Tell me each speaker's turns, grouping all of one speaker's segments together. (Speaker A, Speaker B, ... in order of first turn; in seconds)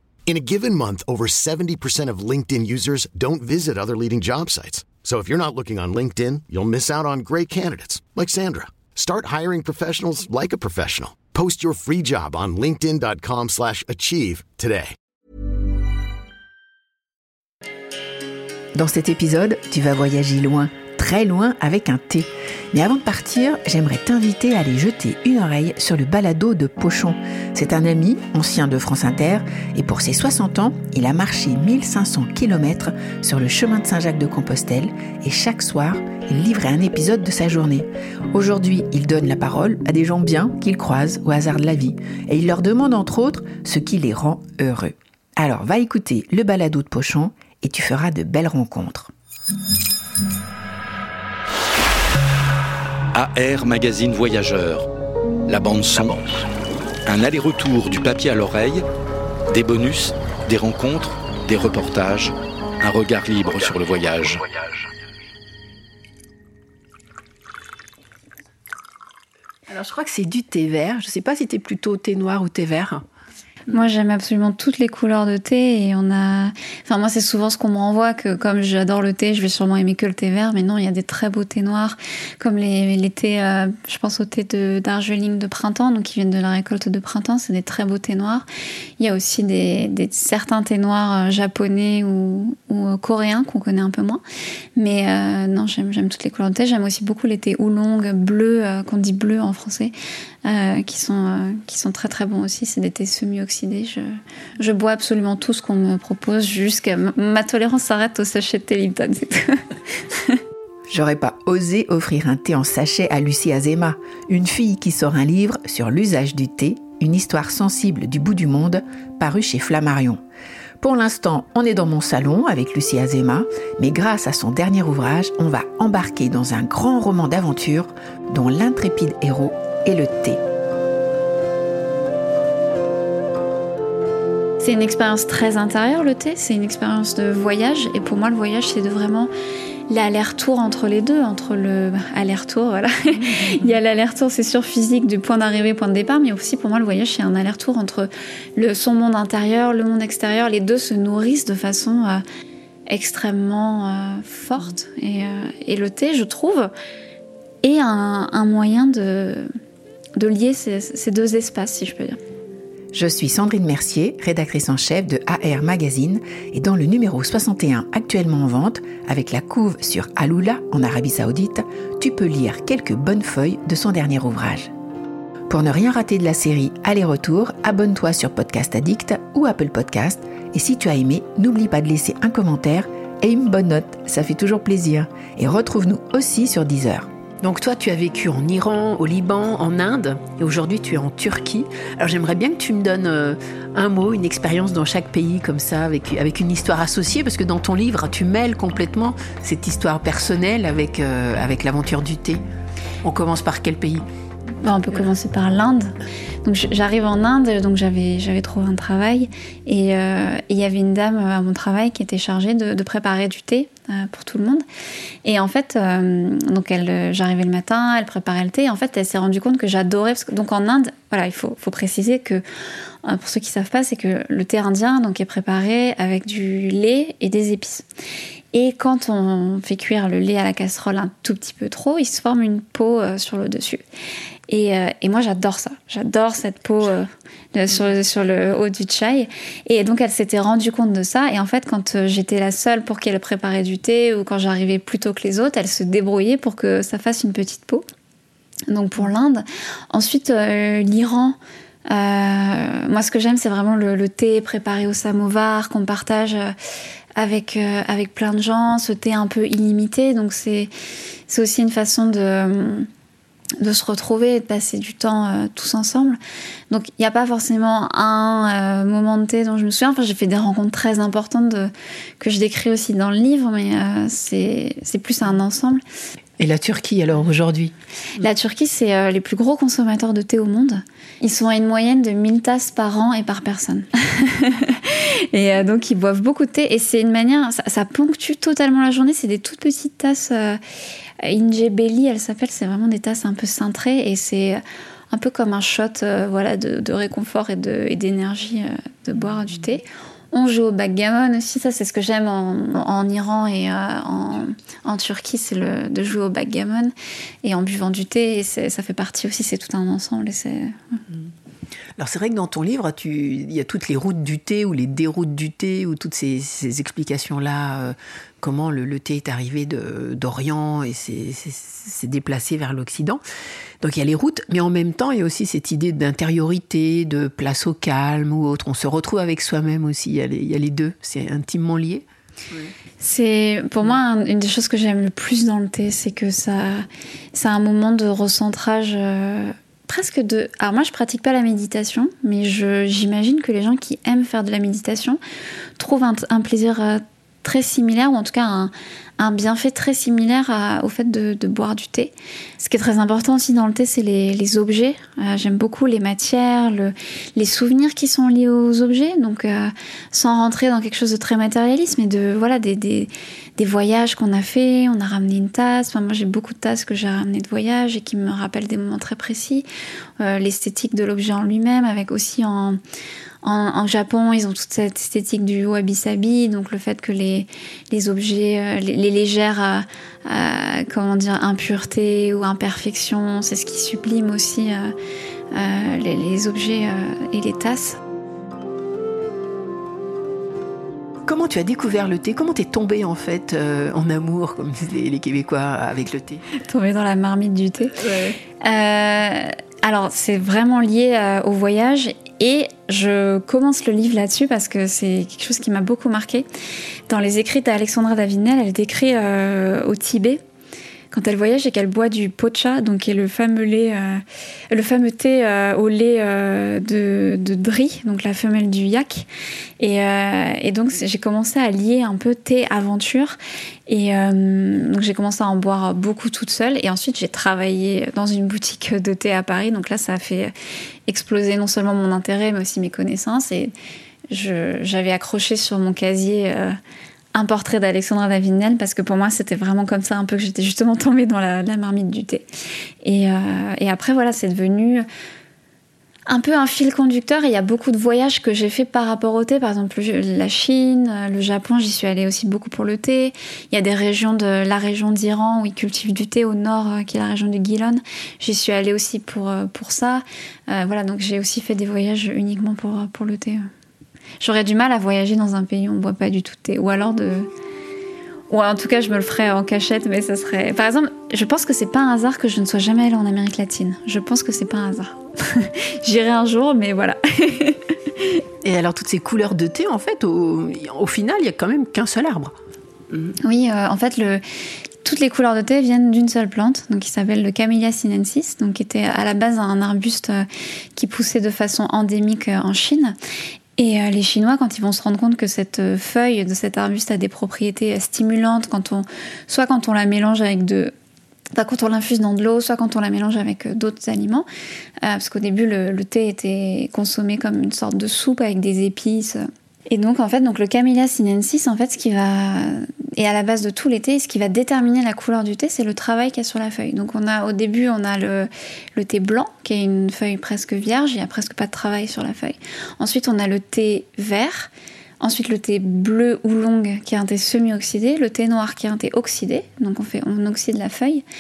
Speaker A: 0.3-15.0
Speaker B: 18.8-49.1, 110.9-120.2, 120.8-130.4, 162.9-174.7, 175.5-187.1
Speaker C: 53.1-54.9, 55.5-56.2, 57.1-58.8, 59.5-64.5
Speaker D: 69.7-73.0, 187.4-202.4, 203.0-204.1, 276.4-277.7, 312.0-323.2, 323.8-332.7, 391.3-396.4, 398.1-398.4, 478.6-482.6
Speaker E: 73.7-88.5, 89.0-94.2, 94.8-99.9, 100.5-110.4, 134.6-139.3, 139.9-152.2, 152.9-156.7, 157.6-159.5, 160.2-162.2, 204.6-205.9, 206.4-214.6, 215.2-222.4, 223.0-227.8, 228.5-233.8, 234.5-247.8, 248.7-251.4, 251.9-256.6, 257.2-260.7, 261.3-262.9, 263.6-266.2, 266.7-275.8, 278.2-290.6, 291.2-311.0, 333.0-345.2, 345.8-369.7, 370.2-372.8, 373.4-384.9, 385.5-388.0, 396.6-398.0, 398.6-406.5, 407.1-410.4, 411.1-430.5, 431.1-433.7, 434.3-436.8, 437.3-442.5, 443.0-445.1, 446.3-463.6, 464.4-467.5, 468.5-478.4, 483.4-484.4, 485.0-493.2, 493.8-500.9, 501.5-504.5, 505.0-531.2